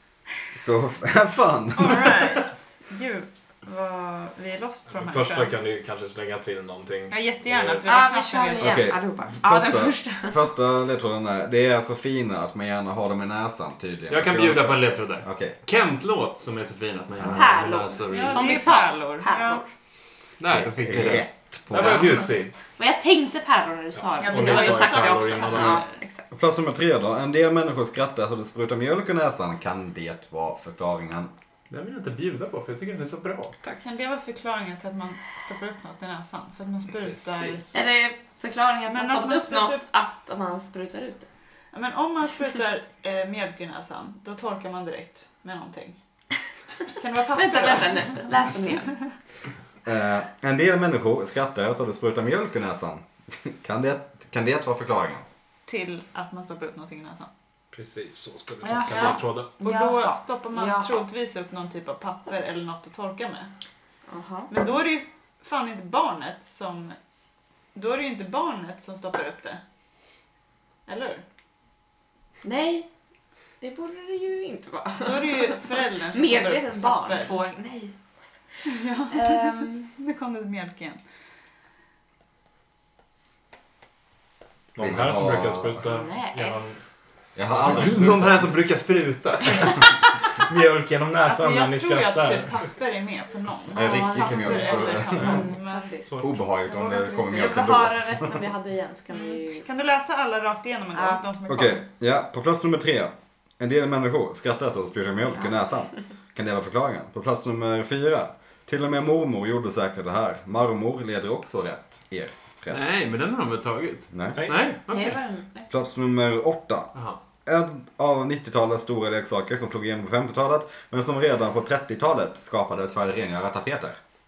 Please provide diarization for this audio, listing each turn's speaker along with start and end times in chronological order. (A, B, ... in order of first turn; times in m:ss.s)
0:00.5-0:02.4 A
0:01.8-0:05.5 B
0:04.9-0:07.8 C
0:07.1-0:08.8 B
0:07.8-0:10.4 D
0:08.6-0:15.6 A
0:14.1-0:18.6 E
0:17.2-0:19.7 D
0:18.0-0:19.6 B
0:20.4-0:22.3 E
0:20.8-0:22.0 A
0:21.7-0:22.5 C
0:22.8-0:26.2 D
0:24.2-0:25.9 B
0:24.3-0:25.8 C
0:26.3-0:31.3 A
0:31.7-0:33.6 E
0:33.6-0:37.8 B
0:37.0-0:37.7 C
0:37.7-0:41.3 D
0:38.9-0:39.8 B
0:41.7-0:46.0 B
0:46.9-0:49.0 B
0:47.3-0:49.0 D
0:49.8-0:55.2 A
0:55.6-0:57.3 B
0:57.7-0:59.5 C
0:58.6-1:01.0 D
0:58.9-1:03.5 B
1:04.1-1:04.5 D
1:04.5-1:07.0 B
1:07.7-1:09.6 B
1:10.9-1:11.2 B
1:12.4-1:12.9 D
1:13.6-1:18.0 D
1:15.0-1:17.3 B
1:18.5-1:19.7 D
1:18.6-1:21.0 B
1:24.7-1:26.8 C
1:24.8-1:25.9 A
1:25.8-1:26.6 D
1:27.4-1:28.4 A
1:27.5-1:27.8 C
1:27.5-1:29.9 E
1:30.4-1:32.5 C
1:31.2-1:35.9 B
1:33.7-1:35.5 A
1:33.7-1:39.6 D
1:36.2-1:38.4 A
1:39.1-1:41.8 B
1:40.9-1:41.2 D
1:41.5-1:52.8 A
1:52.7-1:55.2 E
1:54.1-1:54.4 A
1:54.9-1:55.7 D
1:55.7-1:56.9 A
1:56.9-1:57.2 E
1:57.4-2:04.0 A